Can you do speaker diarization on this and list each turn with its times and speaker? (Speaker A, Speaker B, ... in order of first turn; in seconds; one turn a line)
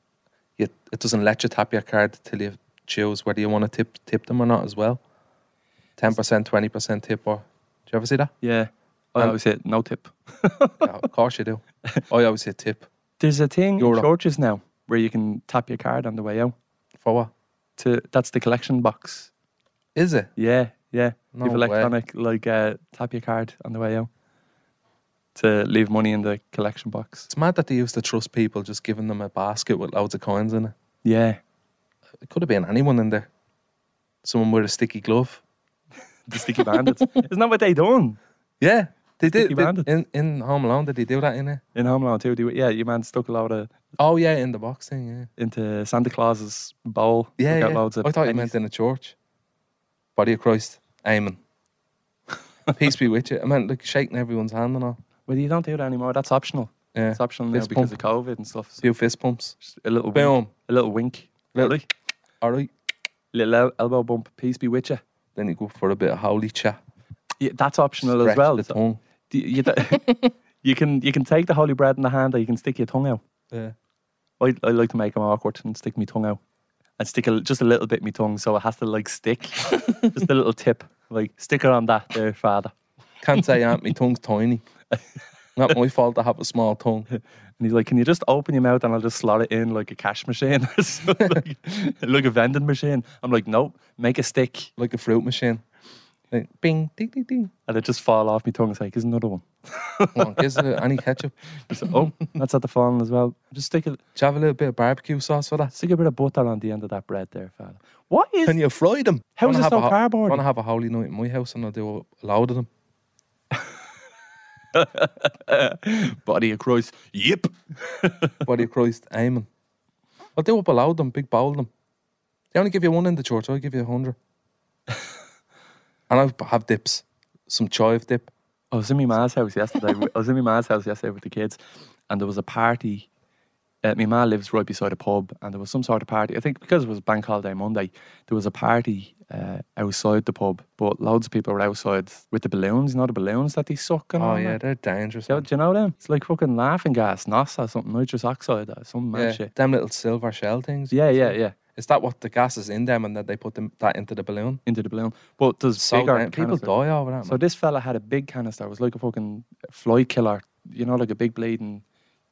Speaker A: 0.6-5.0
Speaker A: 6.0-8.3
Speaker B: 8.4-10.9
Speaker A: 10.8-12.9
Speaker B: 13.2-16.5
Speaker A: 13.8-14.1
Speaker A: 17.0-17.3
Speaker B: 17.8-19.3
Speaker A: 19.9-20.3
Speaker B: 20.4-24.1
Speaker A: 21.3-21.9
Speaker B: 25.3-27.3
Speaker A: 27.3-30.7
Speaker B: 31.0-31.4
Speaker A: 32.2-33.3
Speaker A: 34.2-35.4
Speaker B: 36.3-38.2
Speaker A: 36.6-36.9
Speaker A: 38.6-41.6
Speaker B: 39.2-39.9
Speaker B: 41.7-43.7
Speaker A: 44.0-45.3
Speaker B: 45.4-48.5
Speaker A: 47.4-49.1
Speaker A: 50.1-51.4
Speaker A: 52.7-55.0
Speaker B: 55.2-58.8
Speaker A: 56.9-58.0
Speaker A: 58.8-59.5
Speaker B: 59.6-61.9
Speaker A: 60.1-60.5
Speaker A: 61.5-61.8
Speaker A: 62.4-62.7
Speaker B: 63.3-65.0
Speaker A: 65.3-66.8
Speaker B: 67.4-68.8
Speaker A: 68.0-69.0
Speaker B: 69.3-73.2
Speaker B: 74.4-76.4
Speaker B: 77.0-82.7
Speaker A: 83.2-84.6
Speaker A: 85.5-87.1
Speaker B: 87.6-94.7
Speaker A: 94.8-95.6
Speaker A: 96.3-97.5
Speaker B: 97.7-100.5
Speaker A: 100.1-102.1
Speaker B: 101.7-104.0
Speaker A: 104.2-105.7
Speaker B: 105.7-108.6
Speaker A: 108.4-112.7
Speaker B: 109.4-110.4
Speaker B: 114.7-118.3
Speaker A: 118.4-119.5
Speaker A: 120.3-121.7
Speaker A: 122.5-124.2
Speaker A: 126.1-128.3
Speaker B: 128.7-133.1
Speaker B: 133.8-144.6
Speaker A: 144.2-145.5
Speaker B: 145.3-149.5
Speaker A: 149.1-154.6
Speaker B: 150.9-151.6
Speaker B: 154.7-156.7
Speaker A: 155.8-157.4
Speaker B: 157.2-161.8